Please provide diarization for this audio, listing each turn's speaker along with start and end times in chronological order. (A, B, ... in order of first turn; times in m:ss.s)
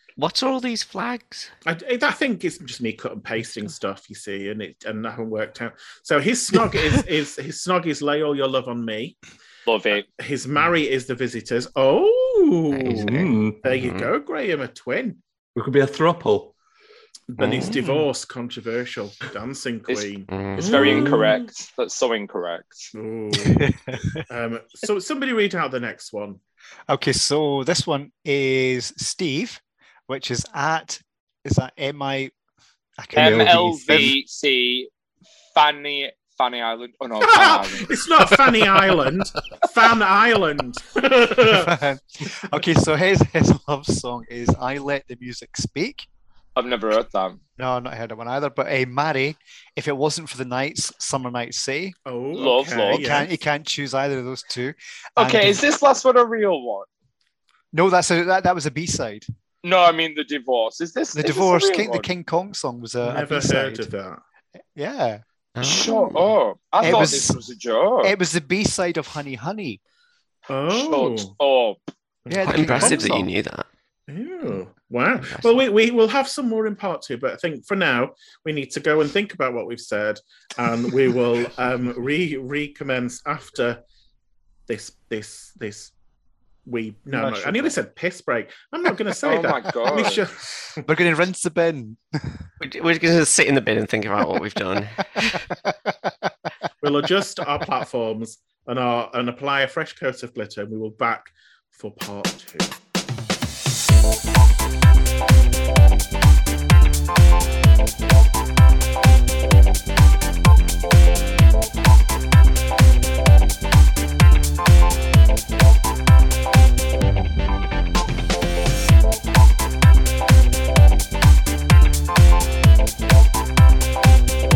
0:00.2-0:01.5 A
0:01.6-0:09.2 B
0:09.6-0:10.0 C
0:10.0-0:15.2 B
0:12.9-0:13.8 D
0:12.9-0:14.1 A
0:15.5-0:16.5 D
0:17.3-0:21.4 B
0:17.4-0:17.9 A
0:19.9-0:22.9 C
0:20.3-0:21.2 A
0:22.9-0:23.6 B
0:23.4-0:24.2 E
0:24.3-0:26.4 B
0:26.9-0:32.3 E
0:33.0-0:34.2 E
0:33.1-0:34.9 C
0:33.2-0:34.1 D
0:35.5-0:37.9 C
0:37.2-0:41.7 B
0:41.4-0:46.1 E
0:46.6-0:47.4 C
0:47.6-0:52.0 E
0:52.0-0:53.4 B
0:52.3-0:53.1 C
0:52.9-0:55.6 E
0:55.2-0:56.9 C
0:57.7-0:59.2 E
0:59.6-1:02.1 C
1:01.1-1:03.9 E
1:03.0-1:04.2 B
1:04.7-1:05.2 E
1:05.5-1:06.3 A
1:05.6-1:08.1 C
1:06.8-1:07.4 E
1:08.0-1:09.8 E
1:10.5-1:11.3 B
1:10.7-1:11.8 C
1:12.2-1:13.3 B
1:12.3-1:13.2 E
1:12.4-1:13.7 A
1:14.1-1:23.8 B
1:15.2-1:15.6 A
1:24.7-1:25.9 B
1:26.6-1:30.8 B
1:27.1-1:27.8 E
1:29.2-1:30.2 C
1:30.8-1:32.2 E
1:32.6-1:35.4 A
1:35.6-1:36.1 E
1:36.8-1:42.8 B